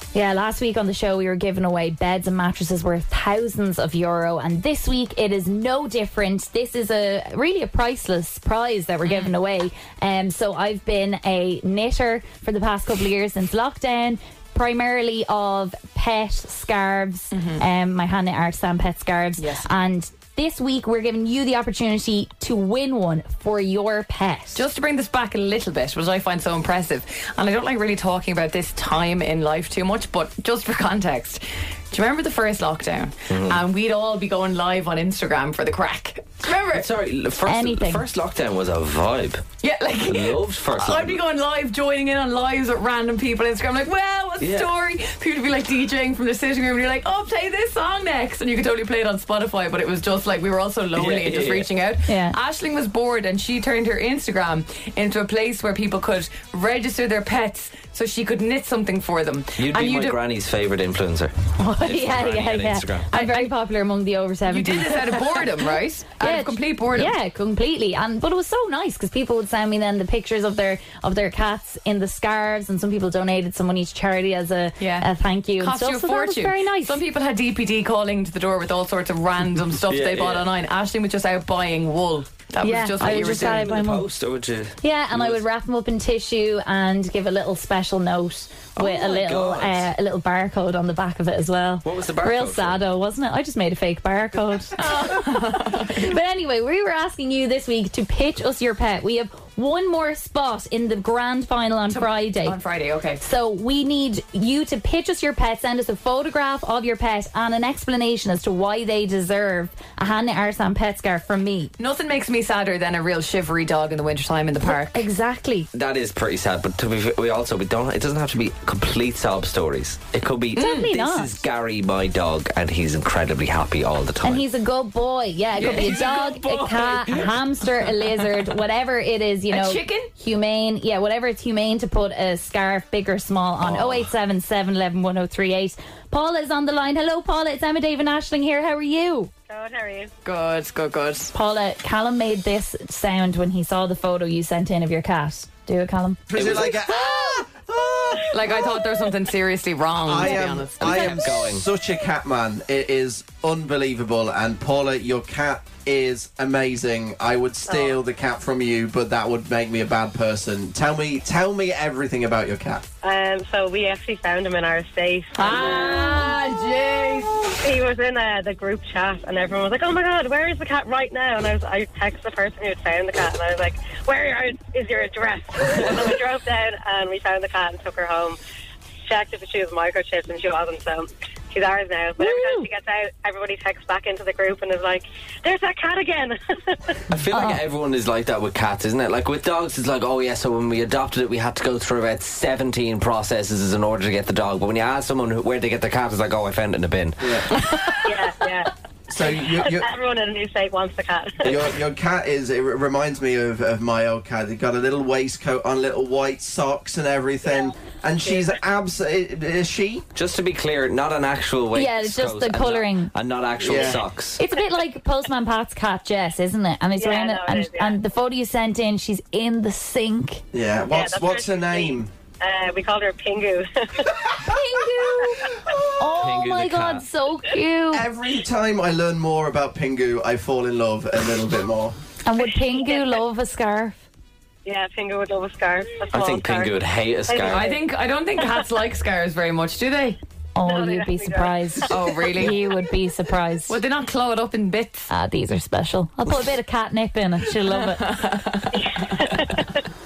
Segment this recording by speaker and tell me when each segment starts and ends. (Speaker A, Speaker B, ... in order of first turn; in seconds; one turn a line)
Speaker A: 0.1-24.6
Speaker B: 9.0-9.3
Speaker B: 17.3-17.6
Speaker B: 19.4-19.7
Speaker B: 24.5-36.9
Speaker C: 33.3-33.6
Speaker C: 36.7-39.4
Speaker A: 37.5-38.0
Speaker B: 39.6-60.2
Speaker C: 40.0-41.2
Speaker C: 44.4-44.7
Speaker C: 51.0-51.7
Speaker A: 52.1-52.4
Speaker C: 59.6-63.1
Speaker A: 61.6-77.0
Speaker B: 63.1-63.5
Speaker B: 64.5-67.1
Speaker B: 74.8-83.7
Speaker C: 79.9-80.5
Speaker A: 82.6-84.0
Speaker C: 83.0-85.4
Speaker A: 84.8-102.6
Speaker C: 88.8-89.9
Speaker C: 91.8-92.8
Speaker B: 94.8-96.1
Speaker B: 101.9-103.2
Speaker A: 103.2-111.7
Speaker B: 111.8-115.0
Speaker A: 114.6-115.7
Speaker C: 115.7-124.5
Speaker A: 120.5-121.4
Speaker B: 120.6-120.9
Speaker A: 124.2-139.3
Speaker C: 125.5-127.4
Speaker B: 125.6-126.1
Speaker B: 129.5-130.1
Speaker C: 133.6-134.1
Speaker D: 139.5-140.1
Speaker B: 140.2-141.3
Speaker A: 141.3-146.2
Speaker E: 146.3-148.8
Speaker C: 146.3-146.8
Speaker B: 148.3-151.5
Speaker E: 150.0-162.8
Speaker C: 150.8-151.6
Speaker D: 157.7-157.9
Speaker D: 163.0-166.0
Speaker B: 165.4-167.4
Speaker A: 165.6-166.3
Speaker D: 167.6-178.4
Speaker D: 179.1-187.0
Speaker A: 182.2-182.7
Speaker C: 187.1-197.7
Speaker A: 187.3-187.6
Speaker E: 197.2-197.4
Speaker D: 198.0-198.7
Speaker E: 199.1-199.8
Speaker D: 199.6-201.5
Speaker E: 201.4-210.1
Speaker D: 208.2-208.5
Speaker C: 210.1-214.4
Speaker A: 211.7-213.1
Speaker E: 213.6-214.0
Speaker A: 214.4-220.4
Speaker D: 217.0-218.0
Speaker E: 220.5-222.1
Speaker D: 220.9-224.2
Speaker A: 224.4-225.4
Speaker D: 225.2-225.5
Speaker E: 225.6-226.1
Speaker A: 226.0-228.1
Speaker C: 226.2-227.0
Speaker E: 227.9-231.9
Speaker A: 232.2-234.0
Speaker D: 232.5-233.2
Speaker D: 234.6-237.8
Speaker C: 236.1-237.7
Speaker B: 237.4-240.2
Speaker A: 240.6-243.7
Speaker D: 240.6-242.4
Speaker B: 241.9-242.6
Speaker B: 243.7-245.1
Speaker A: 245.1-248.0
Speaker B: 247.7-249.4
Speaker D: 248.7-249.6